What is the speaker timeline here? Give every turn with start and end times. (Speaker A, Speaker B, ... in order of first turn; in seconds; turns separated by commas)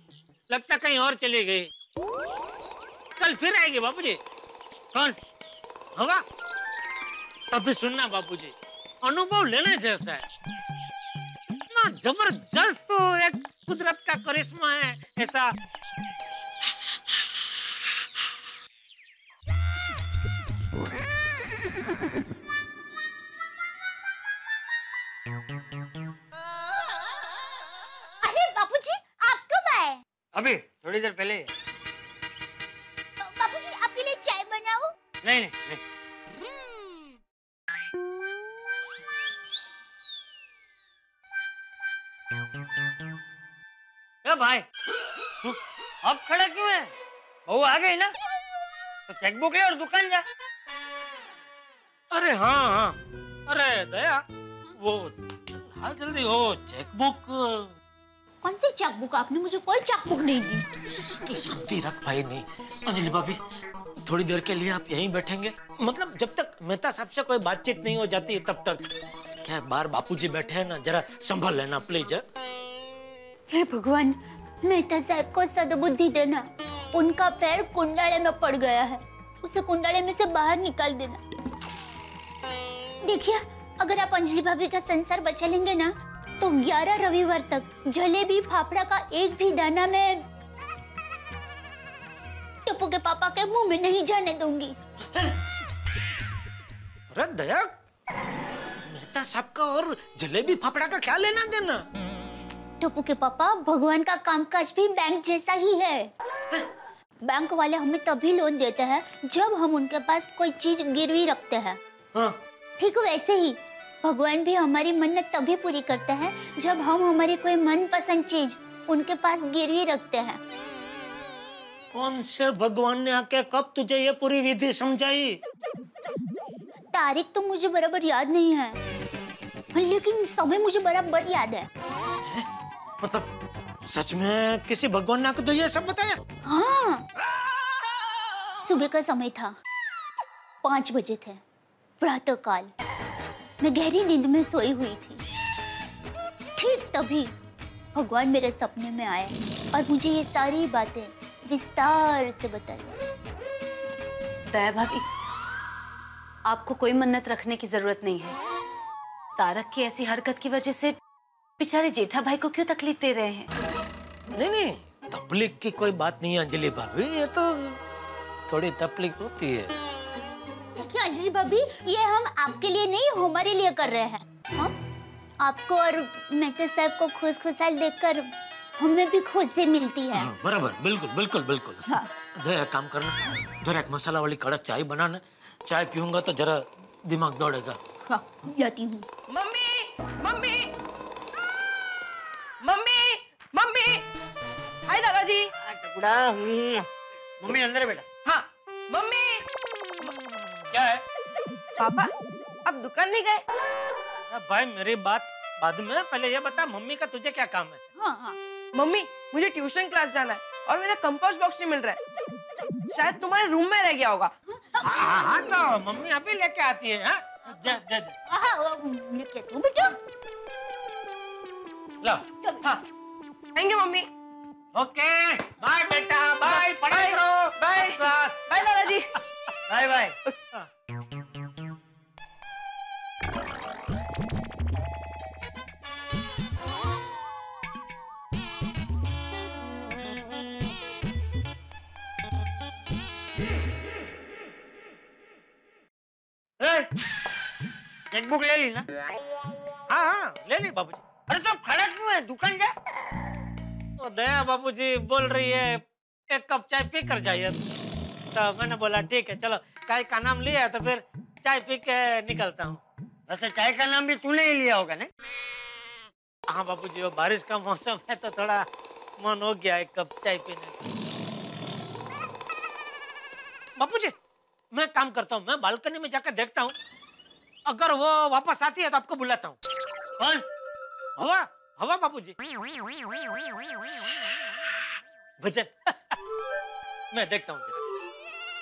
Speaker A: 0.5-1.7, Speaker A: 3.2-4.2, Speaker A: 6.0-6.2, Speaker A: 7.5-10.2, Speaker A: 11.7-15.5, Speaker B: 28.2-30.0, Speaker C: 30.3-31.5, Speaker B: 33.2-34.9, Speaker C: 35.2-35.8, Speaker C: 44.2-44.6, Speaker C: 45.4-46.9, Speaker C: 47.5-48.1, Speaker C: 49.1-50.2, Speaker A: 52.1-53.0, Speaker A: 53.5-54.2, Speaker A: 54.8-57.7, Speaker B: 58.4-60.6, Speaker A: 60.9-63.4, Speaker A: 64.0-68.8, Speaker A: 69.4-72.2, Speaker B: 73.5-81.2, Speaker B: 83.0-90.2, Speaker B: 92.6-94.7, Speaker A: 97.1-97.7, Speaker A: 98.8-101.8, Speaker B: 102.8-106.1, Speaker B: 107.2-111.8, Speaker B: 112.8-120.4, Speaker A: 121.9-125.4, Speaker B: 126.9-128.8, Speaker B: 129.7-131.7, Speaker A: 133.0-133.3, Speaker A: 133.8-136.2, Speaker B: 136.4-137.0, Speaker B: 138.6-139.5, Speaker B: 140.6-141.4, Speaker B: 142.0-142.7, Speaker B: 143.6-145.2, Speaker B: 146.6-147.3, Speaker B: 147.9-153.0, Speaker D: 154.5-155.0, Speaker D: 156.4-158.3, Speaker D: 159.4-160.9, Speaker D: 161.6-163.5, Speaker A: 164.3-167.8, Speaker A: 168.5-169.7, Speaker B: 170.7-174.7, Speaker B: 175.4-180.3, Speaker A: 180.2-181.8, Speaker A: 182.4-187.8, Speaker B: 188.4-189.1, Speaker E: 189.3-190.7, Speaker E: 192.6-194.0, Speaker E: 194.9-195.5, Speaker C: 195.6-196.9, Speaker C: 197.4-198.0, Speaker E: 198.2-199.4, Speaker A: 200.7-201.0, Speaker E: 201.8-202.1, Speaker E: 202.6-203.4, Speaker A: 204.3-207.8, Speaker B: 208.0-208.3, Speaker E: 208.7-212.0, Speaker E: 212.9-214.3, Speaker B: 214.5-215.2, Speaker A: 214.8-218.1, Speaker B: 218.3-219.9, Speaker A: 222.0-222.7, Speaker E: 223.5-224.1, Speaker A: 224.7-228.5, Speaker E: 226.9-229.1, Speaker C: 246.6-246.9, Speaker C: 248.1-248.8, Speaker A: 249.9-251.0, Speaker C: 251.3-252.7, Speaker A: 254.0-257.6, Speaker A: 258.3-262.8, Speaker C: 263.3-265.1, Speaker A: 266.5-268.6, Speaker A: 269.2-270.7, Speaker A: 273.8-274.1, Speaker A: 274.7-276.7, Speaker A: 277.7-279.6, Speaker C: 280.2-280.4, Speaker A: 281.2-282.3, Speaker A: 285.4-285.9, Speaker A: 287.1-287.7